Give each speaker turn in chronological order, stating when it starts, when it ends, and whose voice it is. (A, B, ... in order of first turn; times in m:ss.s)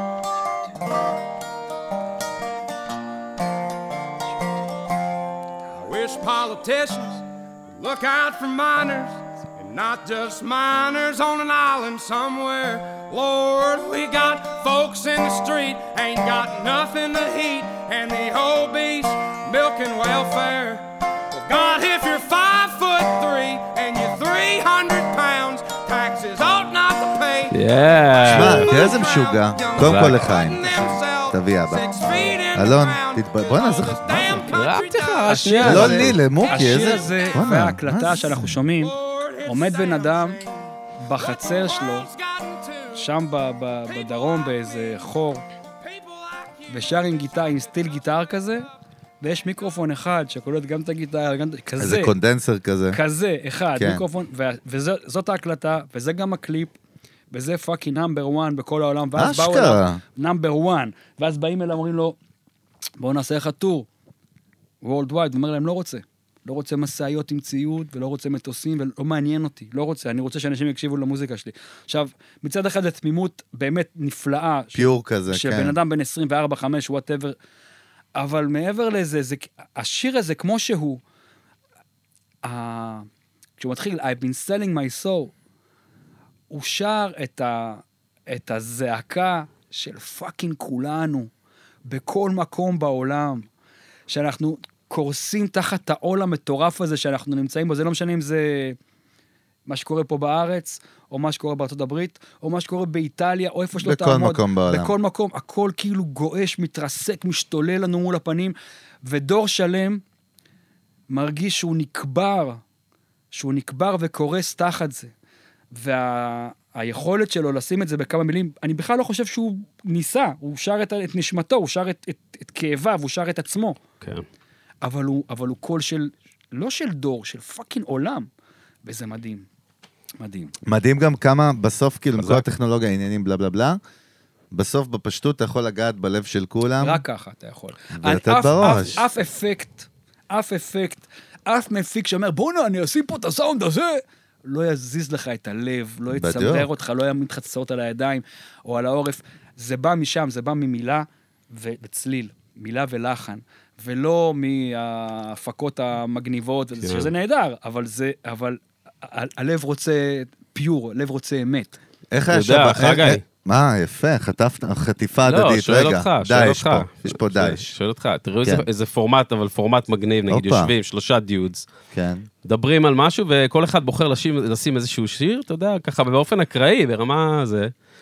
0:05.7-0:35.5 A
0:27.5-0:28.8 B
0:28.2-0:31.9 C
0:29.8-0:30.3 B
0:32.5-0:34.5 C
0:34.5-0:36.2 B
0:35.3-0:38.9 D
0:35.6-0:38.5 C
0:36.3-0:37.4 A
0:38.7-0:43.1 A
0:39.4-0:40.4 D
0:41.0-0:42.1 D
0:42.9-0:45.4 D
0:43.7-0:45.2 A
0:45.8-0:48.6 A
0:46.7-0:48.7 D
0:49.2-0:52.1 D
0:51.8-0:53.0 C
0:52.9-0:56.7 D
0:53.8-0:54.0 C
0:57.3-1:02.2 D
0:59.2-1:00.0 C
1:03.0-1:03.9 D
1:04.8-1:17.4 D
1:14.7-1:15.7 C
1:18.2-1:21.0 D
1:22.4-1:23.1 D
1:23.6-1:25.3 D
1:26.5-1:31.3 D
1:31.9-1:33.5 D
1:34.1-1:38.8 D
1:39.7-1:50.0 D
1:43.8-1:44.9 C
1:51.1-1:52.6 D
1:53.3-1:55.1 D
1:55.7-2:03.8 D
2:04.8-2:08.3 D
2:08.8-2:09.4 D
2:10.2-2:10.5 D
2:10.6-2:13.8 C
2:14.5-2:17.0 C
2:16.8-2:41.8 D
2:17.9-2:19.0 C
2:26.1-2:26.7 C
2:36.8-2:37.1 B
2:42.1-2:47.7 C
2:42.3-2:43.2 B
2:45.2-2:51.7 B
2:50.3-2:50.7 C
2:51.9-2:52.2 C
2:52.4-2:57.7 B